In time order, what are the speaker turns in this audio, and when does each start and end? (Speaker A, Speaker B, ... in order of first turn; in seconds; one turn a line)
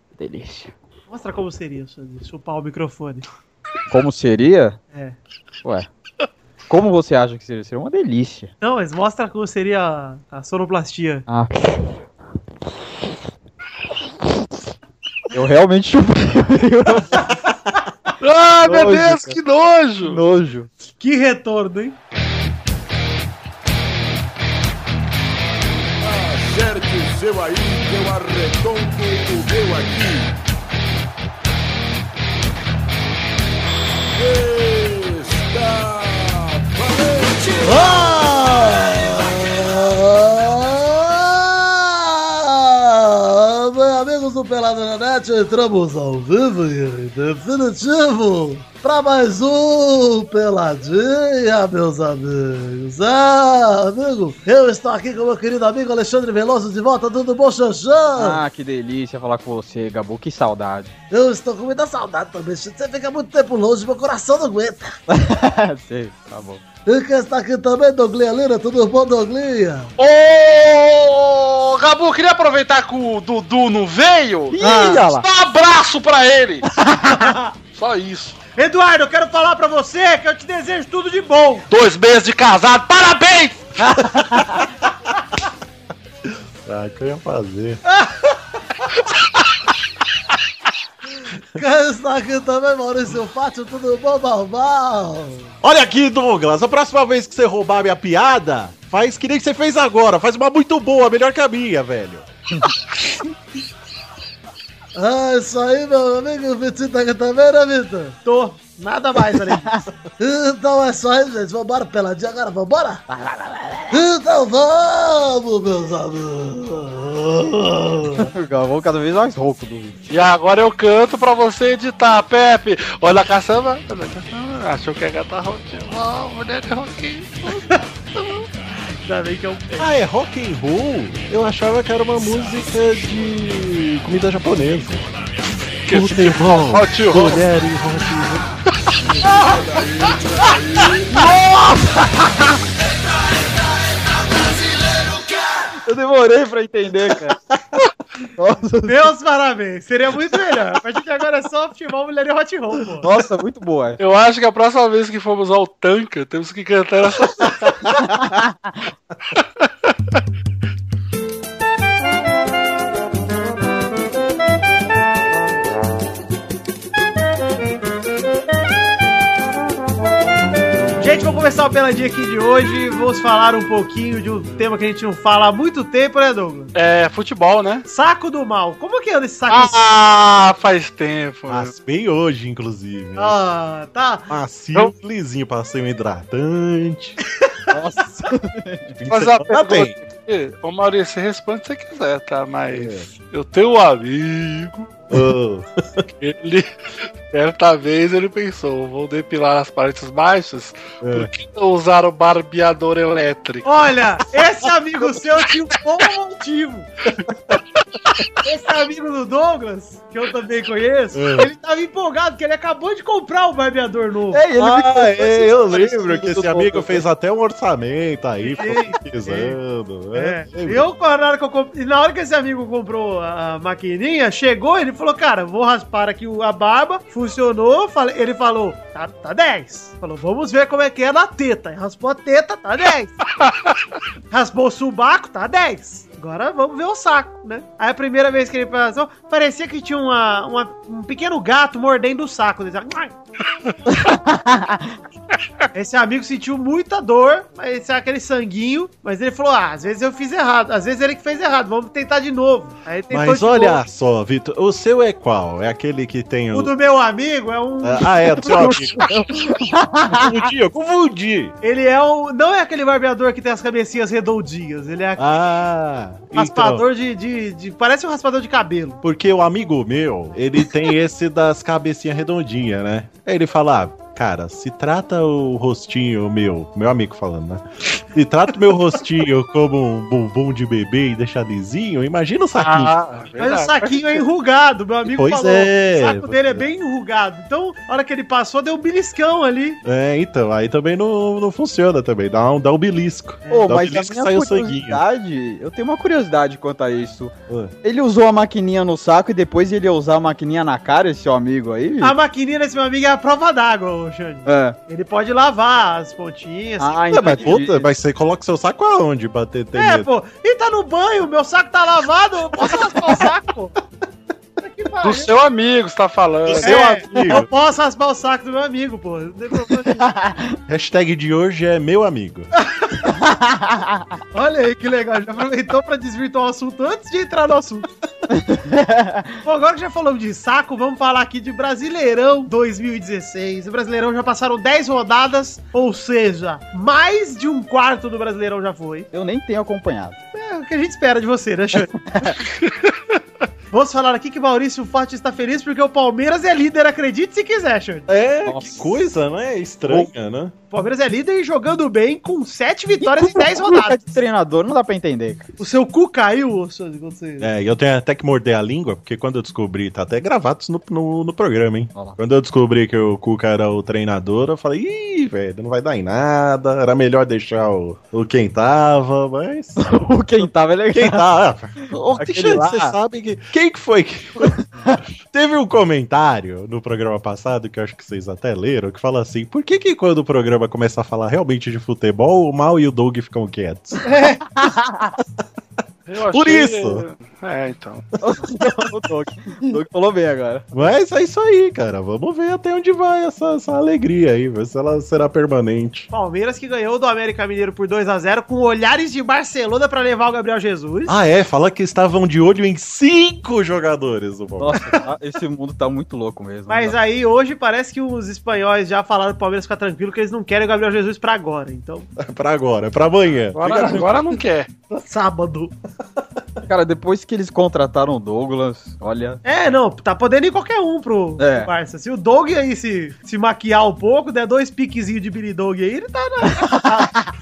Speaker A: 0.2-0.7
Speaker B: 1.1-3.2
Speaker A: 3.9-4.8
Speaker A: 5.6-5.9
Speaker A: 6.7-8.5
Speaker B: 8.6-11.2
Speaker A: 11.3-12.1
Speaker A: 15.3-17.2
Speaker C: 18.2-20.2
Speaker A: 18.6-19.4
Speaker A: 20.0-20.7
Speaker B: 21.0-21.9
Speaker D: 26.0-30.3
Speaker D: 34.1-38.4
Speaker E: 37.6-58.4
Speaker A: 58.2-60.9
Speaker E: 61.1-65.0
Speaker A: 65.1-66.6
Speaker E: 66.9-69.9
Speaker C: 70.0-76.7
Speaker A: 74.5-75.2
Speaker B: 74.6-75.1
Speaker B: 77.1-77.5
Speaker C: 77.8-78.4
Speaker B: 78.6-81.7
Speaker C: 81.7-83.8
Speaker A: 83.8-84.6
Speaker F: 86.6-87.8
Speaker E: 91.6-95.5
Speaker F: 95.6-102.3
Speaker E: 105.0-108.2
Speaker B: 108.2-109.8
Speaker E: 110.2-113.0
Speaker A: 113.1-114.0
Speaker E: 113.9-118.3
Speaker A: 118.2-120.0
Speaker C: 120.1-127.6
Speaker B: 127.5-127.8
Speaker C: 128.2-128.4
Speaker B: 129.0-129.9
Speaker F: 129.8-135.1
Speaker C: 135.9-137.4
Speaker F: 135.9-138.5
Speaker D: 139.3-141.1
Speaker A: 141.1-142.5
Speaker A: 145.8-147.3
Speaker A: 148.3-149.1
Speaker B: 148.8-153.1
Speaker A: 153.0-154.0
Speaker C: 154.0-158.0
Speaker A: 157.9-158.8
Speaker B: 171.0-176.7
Speaker C: 176.7-177.8
Speaker B: 177.9-179.7
Speaker C: 179.5-181.7
Speaker F: 181.5-183.4
Speaker B: 183.2-184.3
Speaker F: 184.3-187.2
Speaker A: 187.7-188.9
Speaker F: 189.0-189.9
Speaker C: 189.1-195.0
Speaker F: 192.7-193.1
Speaker F: 195.1-196.0
Speaker C: 196.2-196.7
Speaker C: 197.3-203.7
Speaker F: 201.0-201.3
Speaker B: 203.6-206.9
Speaker F: 207.2-207.6
Speaker B: 208.4-214.4
Speaker F: 211.1-211.5
Speaker A: 214.3-217.0
Speaker F: 214.6-220.8
Speaker B: 218.4-219.6
Speaker B: 220.1-233.3
Speaker C: 233.4-233.7
Speaker B: 234.3-243.1
Speaker A: 243.9-245.0
Speaker B: 245.7-253.8
Speaker F: 253.1-256.7
Speaker B: 256.5-258.8
Speaker F: 257.8-261.6
Speaker A: 259.0-260.2
Speaker B: 261.6-265.3
Speaker F: 265.2-266.8
Speaker B: 266.3-269.0
Speaker F: 269.0-282.9
Speaker C: 282.6-284.2
Speaker B: 283.4-289.8
Speaker F: 285.1-286.6
Speaker F: 289.8-295.0
Speaker A: 293.5-302.1
Speaker B: 302.0-307.5
Speaker A: 304.4-304.8
Speaker A: 306.8-307.9
Speaker F: 307.1-310.1
Speaker B: 309.8-313.7
Speaker B: 314.6-315.3
Speaker C: 315.0-317.3
Speaker F: 316.4-317.5
Speaker B: 316.6-320.1
Speaker A: 320.0-320.6
Speaker F: 320.7-322.5
Speaker A: 323.1-324.2
Speaker B: 324.3-327.9
Speaker A: 328.3-329.4
Speaker B: 329.4-339.1
Speaker A: 339.1-340.2
Speaker B: 340.3-342.1
Speaker A: 342.1-342.4
Speaker B: 343.7-348.1
Speaker F: 348.1-350.5
Speaker A: 348.4-348.9
Speaker B: 350.7-354.0
Speaker A: 353.0-355.5
Speaker B: 355.6-357.5
Speaker F: 357.4-369.8
Speaker A: 369.8-371.3
Speaker F: 370.9-374.6
Speaker A: 371.9-373.0
Speaker A: 374.4-375.0
Speaker F: 375.2-384.0
Speaker B: 384.0-384.4
Speaker A: 384.6-385.0
Speaker C: 386.1-388.1
Speaker F: 386.2-387.1
Speaker A: 388.2-390.7
Speaker F: 390.7-396.1
Speaker B: 396.1-401.2
Speaker F: 401.1-405.0
Speaker A: 404.6-407.0
Speaker B: 406.7-412.1
Speaker F: 412.2-414.1
Speaker C: 413.5-414.7
Speaker B: 414.9-415.7
Speaker A: 416.6-419.4
Speaker B: 419.4-427.1
Speaker A: 421.4-421.7
Speaker A: 426.6-427.2